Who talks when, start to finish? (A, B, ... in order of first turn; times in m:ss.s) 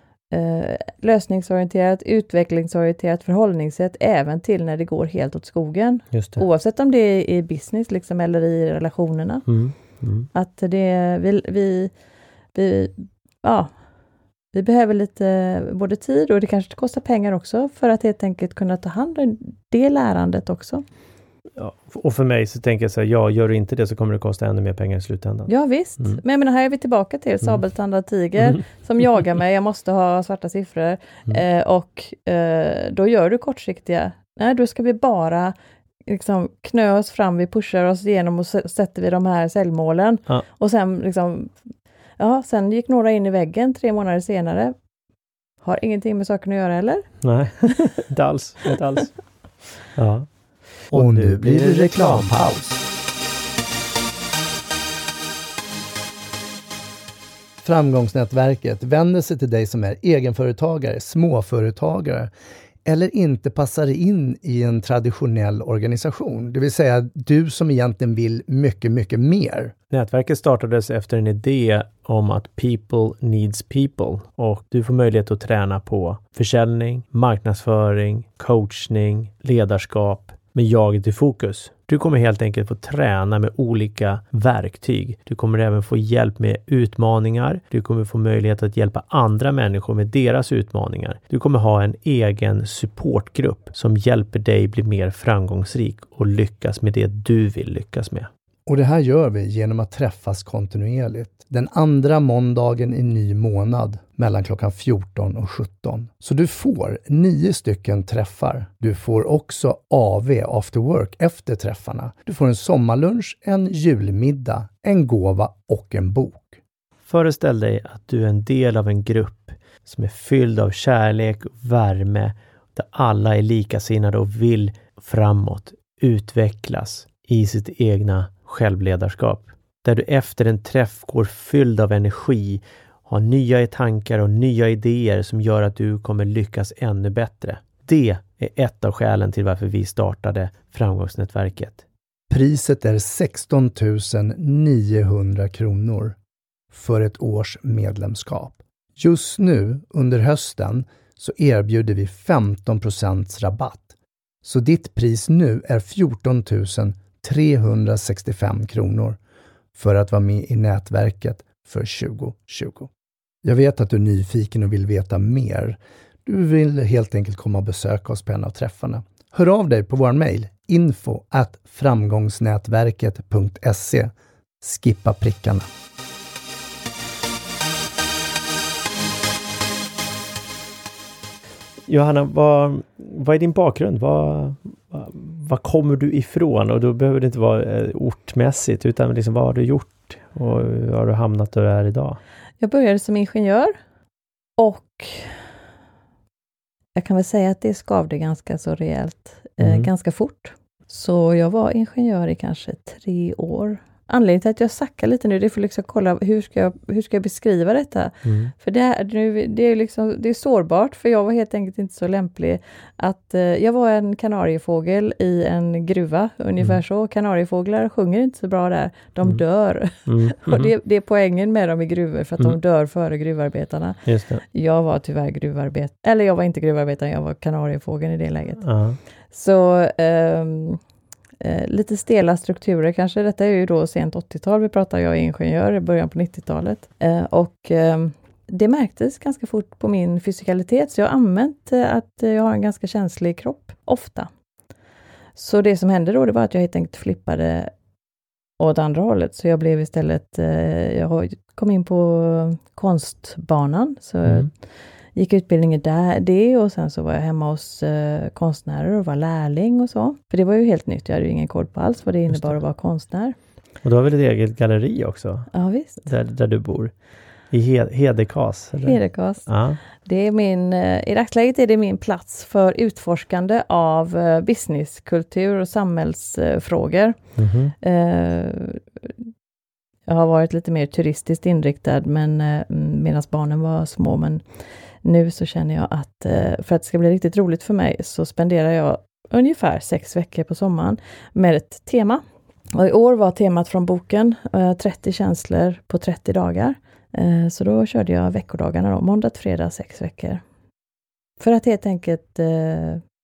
0:00.3-0:09.5 A
0:06.1-0:06.4 B
0:09.5-0:10.3 B
0:10.3-0:11.9 A
0:12.5-0:13.7 A
0:14.5-0:20.8 A
0:21.6-0:26.2 B
0:25.5-0:35.5 A
0:36.1-0:41.5 A
0:42.2-0:44.7 A
0:45.6-0:47.7 A
0:47.2-0:49.2 B
0:49.9-0:52.4 B
0:50.9-0:52.8 C
0:57.6-1:02.3 C
1:02.8-1:09.7 C
1:09.9-1:38.3 B
1:38.6-1:56.6 C
1:57.1-2:21.8 B
2:22.3-2:26.2 C
2:26.7-2:33.9 C
2:34.4-2:39.2 C
2:39.7-2:42.9 C
2:43.4-2:55.7 C
3:01.9-3:12.2 B
3:12.6-3:13.7 A
3:14.6-3:15.4 A
3:16.9-3:48.6 A
3:19.6-3:19.9 B
3:28.2-3:28.5 B
3:40.0-3:40.7 B
3:44.0-3:44.4 B
3:48.6-3:49.0 B
3:49.3-3:50.8 A
3:51.4-4:04.3 A
4:05.4-4:07.7 A
4:08.6-4:14.5 A
4:15.1-4:23.3 A
4:23.8-4:25.5 B
4:25.5-4:26.1 A
4:26.0-4:26.9 B
4:27.5-4:29.8 B
4:28.8-4:37.2 A
4:37.4-4:37.7 B
4:37.8-4:38.8 A
4:40.1-4:44.4 A
4:45.0-4:52.2 A
4:52.7-5:00.4 A
5:01.4-5:03.0 A